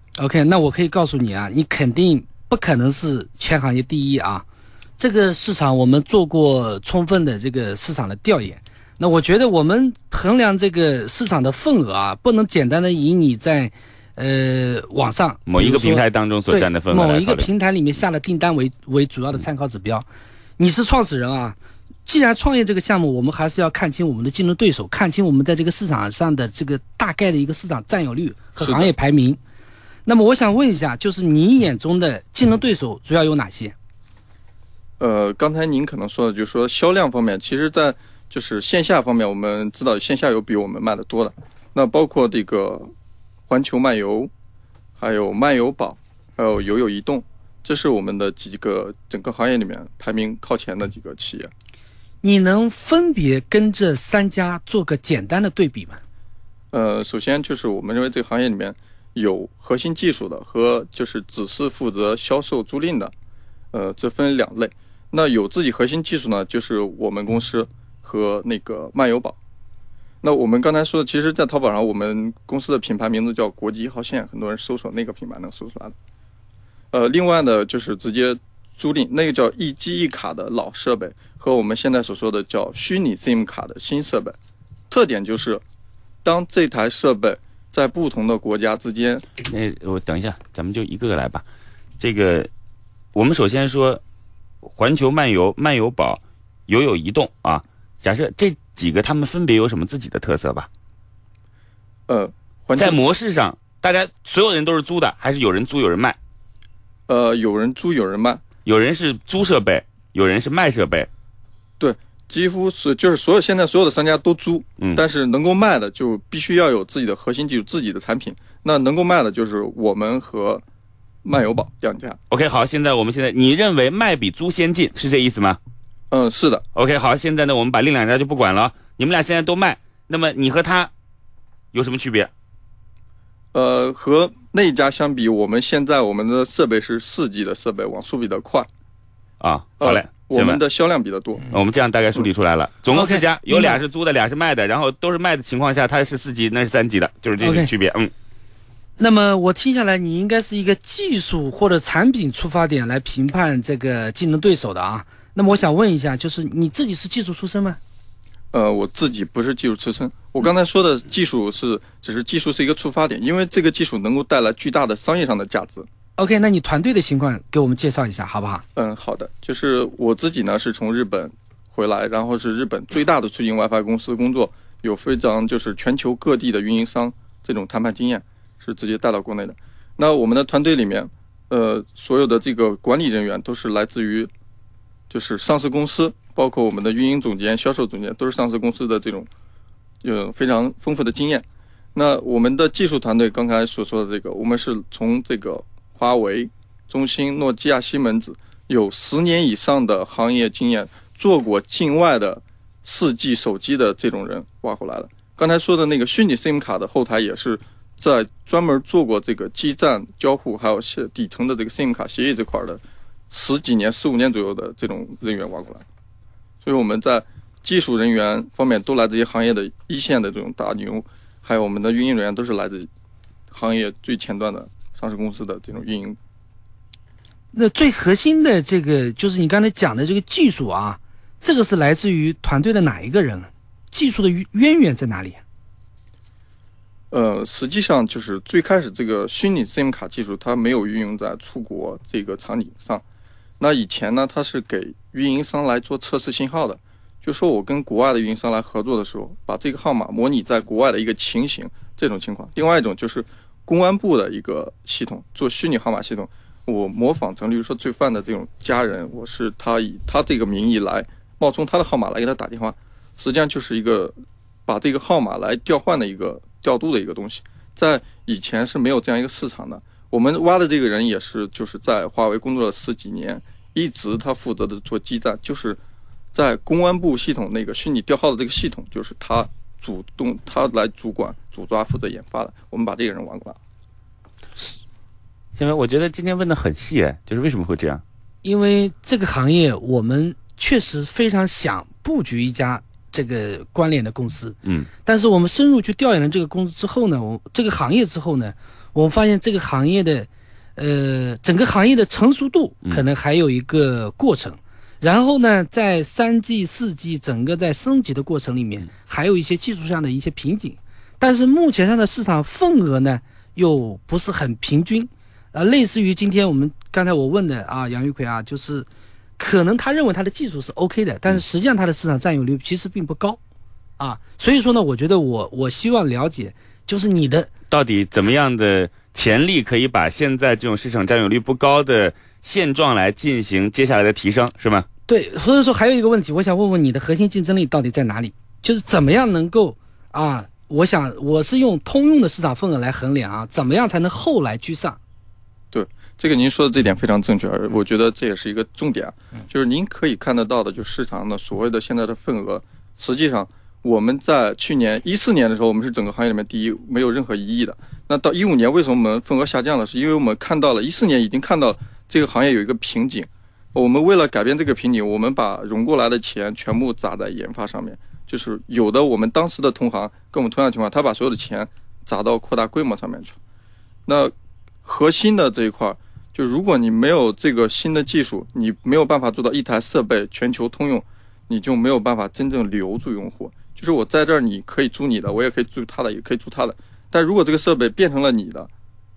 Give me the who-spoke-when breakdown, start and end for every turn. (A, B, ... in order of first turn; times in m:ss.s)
0:00.2-0:04.4 A
0:05.0-0:20.1 A
0:15.5-0:17.5 B
0:20.6-0:29.4 A
0:28.6-0:28.9 C
0:30.0-0:33.7 A
0:35.0-0:42.9 C
0:43.5-0:44.3 C
0:45.0-0:51.5 C
0:52.2-0:56.0 A
0:56.7-1:03.1 C
1:03.7-1:09.4 C
1:10.2-1:15.9 C
1:16.9-1:24.3 C
1:24.9-1:25.6 C
1:26.2-1:29.2 C
1:29.4-1:31.4 B
1:32.0-1:32.5 B
1:33.1-1:34.0 B
1:34.6-1:40.7 B
1:42.1-1:43.0 C
1:42.8-1:46.2 B
1:47.1-1:48.4 C
1:48.6-1:51.1 B
1:51.8-2:00.6 C
2:01.2-2:02.2 C
2:02.3-2:05.6 B
2:06.1-2:06.6 C
2:06.7-2:10.9 B
2:11.7-2:12.3 B
2:13.5-2:18.7 C
2:19.4-2:20.6 B
2:19.8-2:21.5 C
2:21.5-2:28.1 B
2:22.9-2:23.8 A
2:27.4-2:27.7 A
2:29.0-2:37.8 A
2:38.5-2:45.9 C
2:46.2-2:48.6 A
2:48.8-3:04.3 C
3:05.1-3:09.3 C
3:10.0-3:35.8 C
3:36.6-3:42.9 C
3:43.5-3:46.2 C
3:47.5-3:55.4 A
3:57.1-4:03.0 C
4:03.6-4:24.1 C
4:24.7-4:35.8 C
4:36.3-4:43.6 C
4:45.6-4:48.0 B
4:48.4-5:18.9 A
4:54.6-4:54.9 B
5:19.4-5:23.4 A
5:24.0-5:27.5 A
5:27.7-5:34.9 B
5:35.1-5:45.0 A
5:45.7-6:13.4 C
6:14.0-6:14.3 C
6:14.8-6:28.7 C